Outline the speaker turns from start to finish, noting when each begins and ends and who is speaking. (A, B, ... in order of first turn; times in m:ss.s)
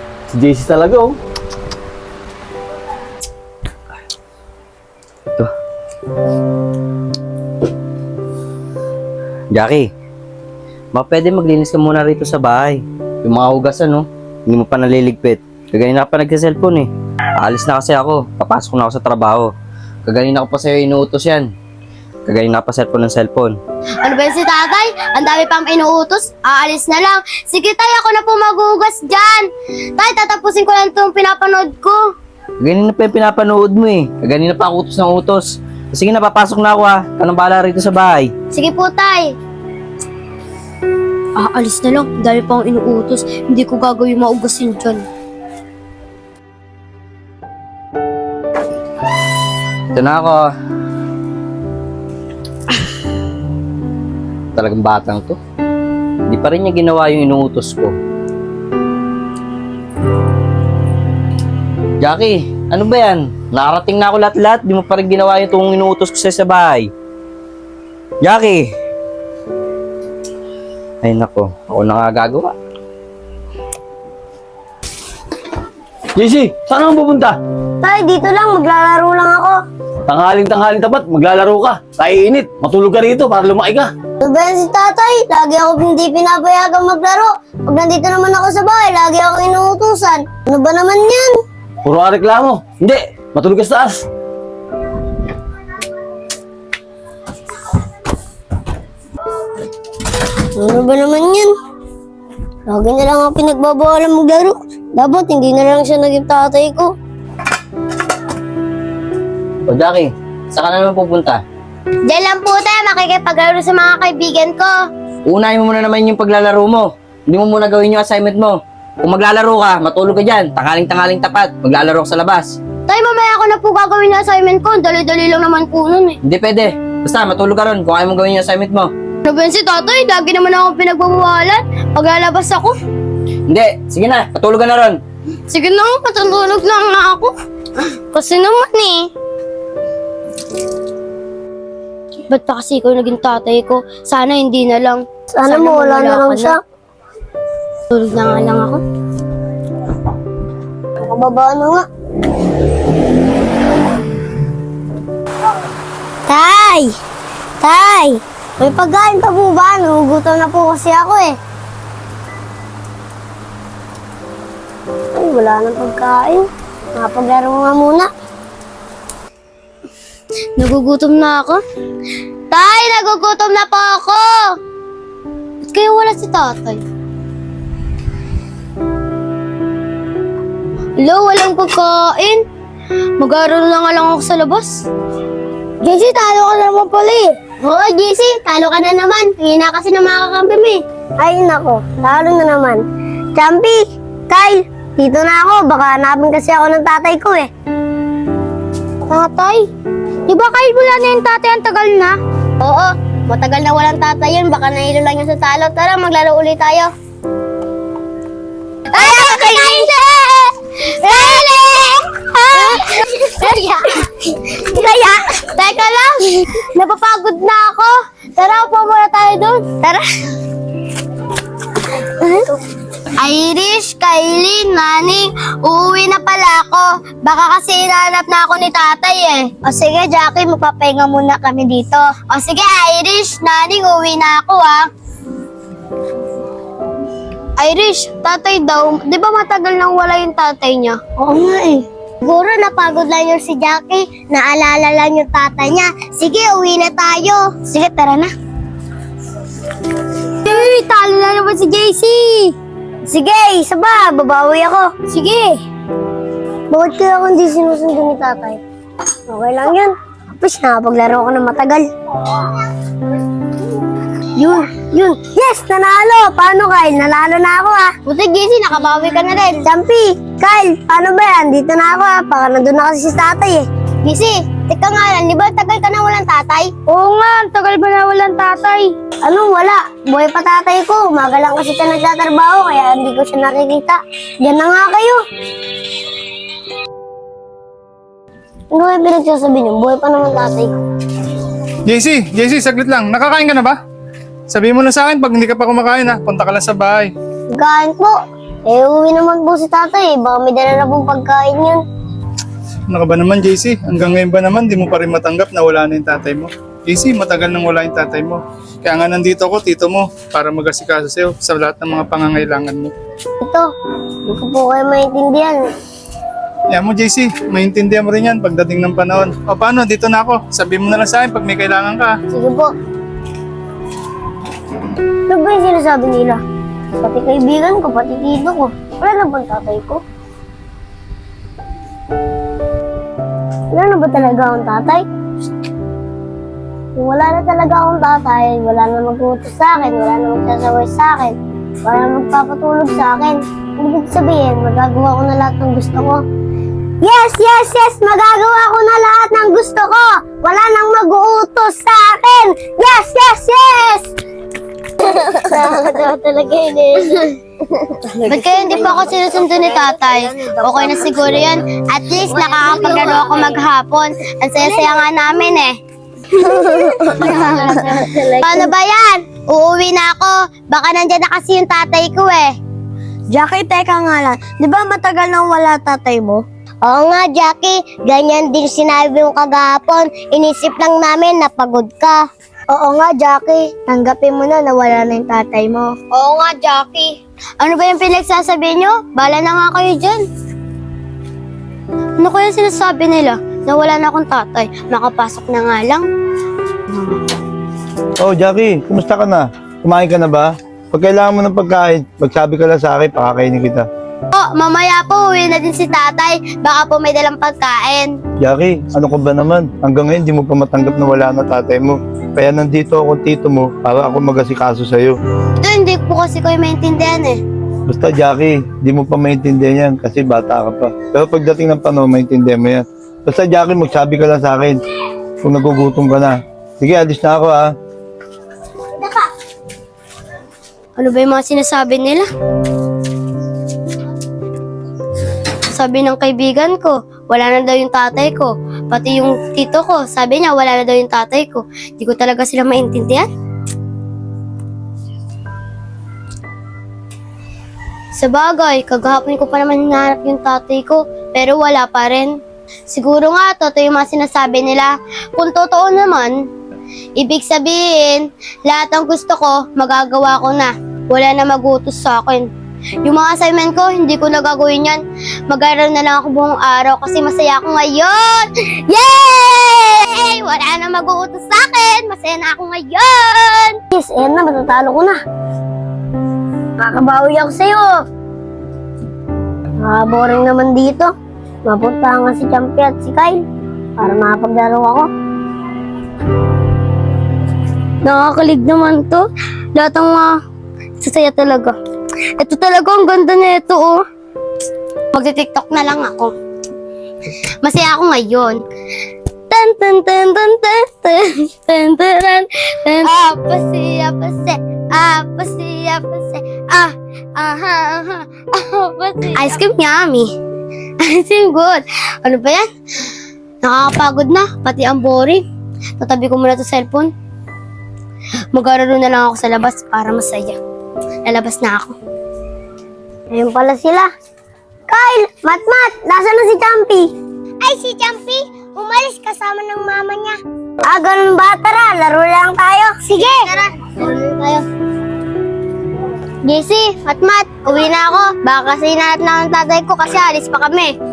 0:00.3-0:01.2 A
0:09.5-0:09.9 B
0:10.9-0:16.9 B
0:17.4-0:19.5 B
0:20.1-0:21.5 B
0:22.3-0:23.6 B
0:24.0-0:32.0 C
0:32.6-0:38.3 B
0:38.5-0:39.3 C
0:41.4-0:45.0 C
0:49.9-0:50.4 B
0:54.6-0:55.4 B
0:56.3-0:58.0 B
1:02.0-1:06.9 B
1:08.2-1:08.7 B
1:11.0-1:12.5 B
1:16.2-1:17.4 A
1:17.8-1:19.6 D
1:20.1-1:23.9 A
1:24.2-1:31.4 D
1:31.8-1:34.0 A
1:40.6-1:41.5 D
1:42.7-1:46.9 D
1:49.7-1:51.4 B
1:52.1-1:54.7 C
1:55.3-2:02.6 B
2:02.9-2:06.2 C
2:06.2-2:08.9 B
2:09.2-2:12.7 C
2:13.5-2:15.0 B
2:15.5-2:17.3 C
2:18.1-2:19.1 C
2:22.3-2:26.6 C
2:25.3-2:26.6 D
2:27.9-2:28.8 C
2:31.0-2:31.8 D
2:36.3-2:36.9 D
2:37.6-2:41.4 D
2:45.2-2:48.1 D
2:50.6-2:51.6 C
2:52.5-2:54.3 C
2:55.6-2:56.8 C
3:01.0-3:02.4 C
3:03.2-3:04.8 C
3:05.8-3:10.8 C
3:11.2-3:12.8 D
3:13.4-3:17.5 D
3:19.1-3:19.7 C
3:20.3-3:26.9 C
3:28.9-3:30.4 C
3:29.0-3:29.6 D
3:31.0-3:33.8 C
3:34.8-3:35.2 D
3:35.4-3:39.7 C
3:43.2-3:49.5 C
3:49.6-3:52.0 D
3:52.3-3:54.9 C
3:57.6-4:01.0 C
4:01.2-4:08.3 D
4:10.4-4:12.5 C
4:13.1-4:14.9 D
4:15.1-4:15.6 C
4:16.7-4:18.6 D
4:19.3-4:21.9 D
4:24.4-4:27.9 D
4:28.1-4:29.7 C
4:29.6-4:33.7 D
4:34.0-4:38.9 C
4:39.2-4:45.2 D
4:48.7-4:50.7 D
4:51.9-4:53.8 E
4:54.5-4:57.1 E
4:57.5-5:01.8 D
5:02.9-5:12.9 E
5:13.4-5:13.7 D
5:14.3-5:15.6 D
5:16.7-5:22.1 E
5:22.3-5:22.7 D
5:25.3-5:26.4 D
5:27.0-5:30.0 D
5:33.7-5:35.1 D
5:37.0-5:46.2 D
5:47.0-5:54.1 D
5:55.2-5:57.2 D
5:58.2-6:05.8 C
6:02.9-6:03.2 D
6:06.4-6:08.7 D
6:07.1-6:12.5 C
6:13.3-6:26.0 D
6:26.1-6:30.2 C
6:32.2-6:36.1 C
6:38.2-6:43.8 F
6:44.3-6:48.2 C
6:48.4-6:55.2 F
6:55.6-6:57.4 C
6:57.9-7:04.8 F
7:05.4-7:07.7 F
7:11.0-7:12.3 C
7:15.7-7:23.3 C
7:28.2-7:36.4 C
7:37.2-7:42.5 C
7:43.0-7:53.8 C
7:53.9-7:55.2 D
7:56.8-7:58.0 D
7:59.8-8:01.1 D
8:01.6-8:03.4 D
8:04.0-8:05.1 D
8:08.0-8:10.4 C
8:11.0-8:11.8 C
8:12.4-8:14.0 C
8:15.1-8:16.3 C
8:17.6-8:18.6 C
8:19.5-8:30.3 C
8:31.0-8:32.6 C
8:33.6-8:35.4 C
8:36.0-8:37.1 C
8:38.5-8:40.6 C
8:41.2-8:41.9 C
8:43.3-8:44.1 D
8:44.9-8:53.3 D
8:53.1-8:54.6 C
8:56.4-9:01.0 C